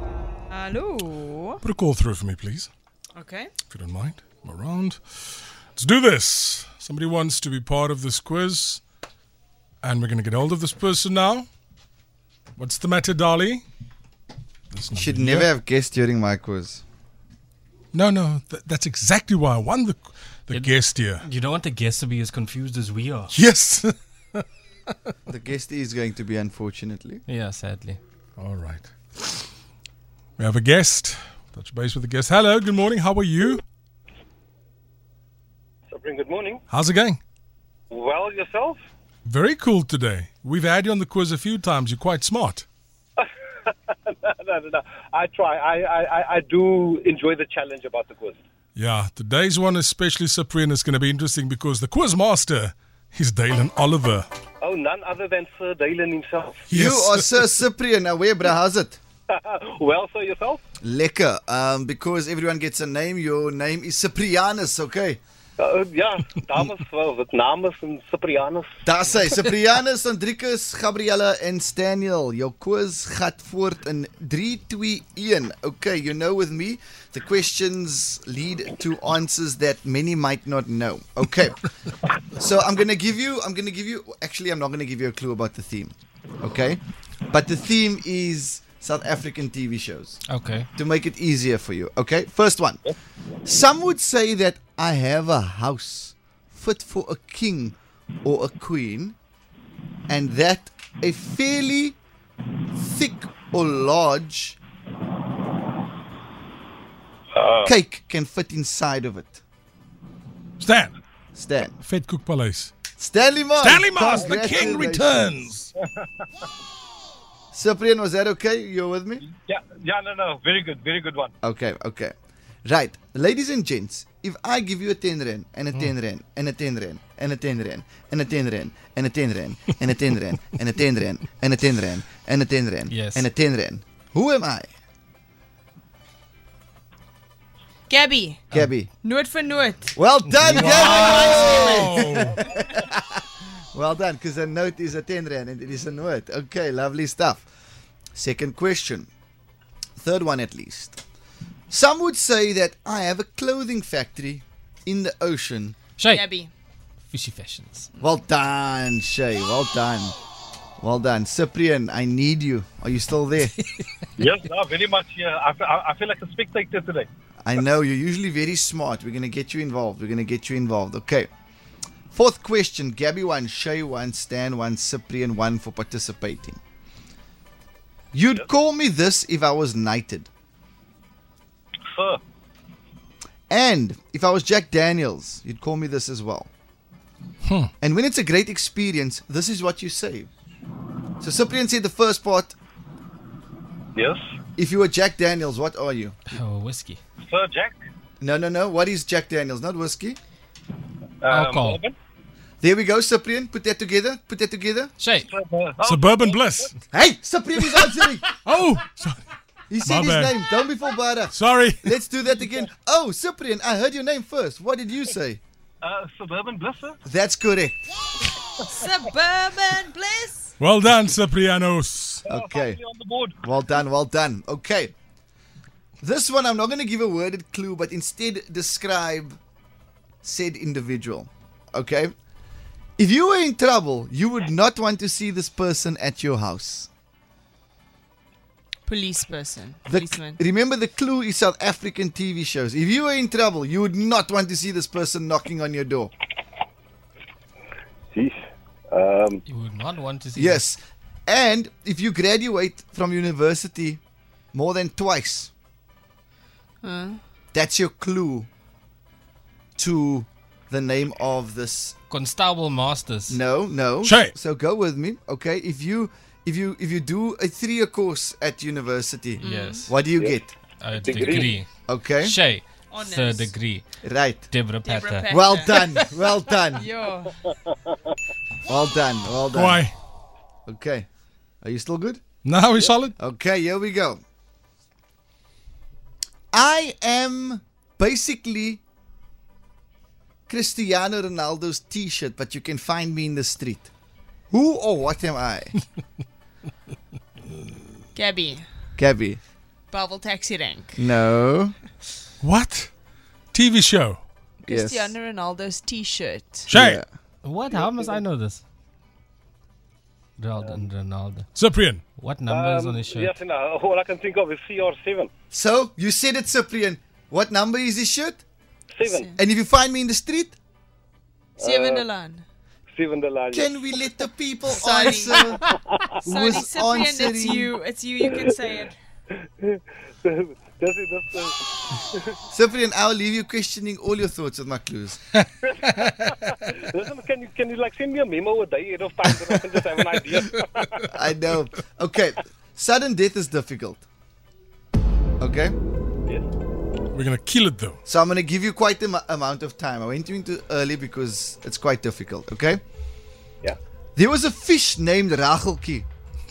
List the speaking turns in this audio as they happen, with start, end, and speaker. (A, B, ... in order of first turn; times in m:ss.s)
0:00.5-0:01.6 A
0:01.6-0:02.7 B
0:03.1-0:03.5 A
0:03.7-0:05.0 B
0:05.8-0:08.8 B
0:09.8-0:11.5 B
0:12.6-0:13.6 B
0:14.7-0:15.5 B
0:14.9-0:16.8 C
0:17.9-0:21.2 B
0:20.5-0:23.4 D
0:23.3-0:24.4 B
0:25.3-0:27.2 C
0:27.3-0:28.0 D
0:28.4-0:29.4 B
0:30.4-0:33.6 B
0:35.9-0:36.6 E
0:36.7-0:37.2 B
0:37.9-0:38.8 E
0:39.2-0:42.6 B
0:44.1-0:48.4 E
0:48.8-0:54.3 B
0:54.6-0:56.7 E
0:56.7-0:57.3 B
0:56.7-0:59.0 C
0:59.3-1:00.6 E
1:00.8-1:05.2 C
1:05.6-1:09.3 E
1:08.8-1:21.6 C
1:22.3-1:30.2 C
1:30.3-1:30.7 D
1:30.7-1:32.8 C
1:33.4-1:39.2 C
1:40.1-1:42.0 C
1:42.7-1:44.6 C
1:47.3-1:47.7 E
1:47.6-1:49.4 C
1:50.6-1:50.9 B
1:51.3-1:51.7 C
1:51.7-1:52.8 B
1:53.0-1:55.3 C
1:53.6-1:55.7 B
1:57.5-1:59.2 C
1:59.2-2:01.3 E
2:01.4-2:02.1 C
2:02.6-2:14.7 C
2:12.9-2:13.3 D
2:17.9-2:18.5 A
2:18.5-2:18.9 C
2:19.0-2:19.9 A
2:20.0-2:23.2 C
2:20.3-2:21.4 D
2:20.5-2:22.4 B
2:21.5-2:21.9 A
2:23.7-2:27.4 C
2:28.1-2:29.1 C
2:30.0-2:31.0 C
2:31.7-2:35.8 C
2:36.0-2:36.2 D
2:36.0-2:36.5 A
2:37.1-2:37.9 D
2:38.0-2:40.1 C
2:40.8-2:43.6 C
2:44.2-2:47.1 E
2:47.4-2:51.3 C
2:52.1-2:56.6 C
2:58.1-3:00.3 C
3:01.9-3:02.2 E
3:03.5-3:06.5 C
3:07.8-3:10.3 C
3:11.2-3:12.6 C
3:13.9-3:14.2 E
3:14.6-3:16.2 C
3:16.3-3:17.0 D
3:17.2-3:17.8 E
3:18.2-3:20.2 C
3:21.2-3:21.9 E
3:21.3-3:21.8 D
3:22.6-3:24.9 C
3:25.0-3:25.3 D
3:25.3-3:26.4 E
3:25.8-3:26.8 B
3:26.9-3:28.2 C
3:28.4-3:29.3 B
3:29.7-3:35.4 C
3:29.8-3:30.3 B
3:31.3-3:31.9 B
3:35.8-3:37.0 E
3:37.0-3:37.8 C
3:38.6-3:40.5 A
3:40.6-3:42.2 B
3:42.3-3:42.8 C
3:42.3-3:43.4 E
3:43.4-3:44.9 C
3:46.0-3:49.4 C
3:50.2-3:52.1 C
3:53.0-3:56.9 C
3:58.8-4:00.4 A
3:59.9-4:06.1 C
4:08.9-4:09.4 E
4:09.4-4:10.6 D
4:10.4-4:14.0 C
4:14.5-4:15.5 C
4:16.8-4:17.2 A
4:17.5-4:18.5 C
4:19.8-4:22.0 C
4:22.1-4:23.4 D
4:23.3-4:30.6 C
4:24.0-4:24.3 B
4:29.4-4:30.0 D
4:29.4-4:29.8 A
4:30.8-4:33.8 D
4:31.0-4:31.6 E
4:31.9-4:32.4 C
4:32.9-4:33.5 A
4:34.0-4:34.5 C
4:34.5-4:36.0 D
4:34.8-4:36.0 A
4:35.3-4:36.9 C
4:36.7-4:37.4 A
4:38.7-4:39.8 C
4:39.5-4:39.9 B
4:40.7-4:41.1 C
4:41.6-4:42.2 C
4:42.4-4:43.1 B
4:43.2-4:44.2 C
4:46.5-4:48.8 C
4:50.5-4:53.9 C
4:54.5-4:55.7 C
4:58.1-4:58.6 A
4:59.0-4:59.4 C
4:59.9-5:01.0 A
5:01.0-5:01.7 C
5:02.4-5:02.9 B
5:03.5-5:04.2 B
5:04.6-5:06.7 A
5:04.7-5:05.1 C
5:06.7-5:07.0 B
5:06.7-5:07.0 C
5:07.4-5:08.6 D
5:07.7-5:08.2 E
5:10.4-5:11.5 D
5:10.6-5:10.8 E
5:11.5-5:12.0 B
5:12.2-5:13.4 D
5:12.5-5:15.3 E
5:15.5-5:18.4 C
5:18.9-5:19.3 E
5:19.0-5:19.4 A
5:19.4-5:20.6 C
5:21.6-5:22.0 E
5:21.6-5:22.4 A
5:22.9-5:24.0 E
5:23.5-5:25.6 C
5:24.7-5:25.6 A
5:26.2-5:27.7 C
5:26.2-5:29.0 A
5:29.6-5:32.3 E
5:32.5-5:35.2 C
5:35.7-5:41.0 E
5:41.1-5:44.0 C
5:45.4-5:45.8 C
5:47.1-5:48.0 B
5:48.0-5:52.8 C
5:54.2-5:56.1 C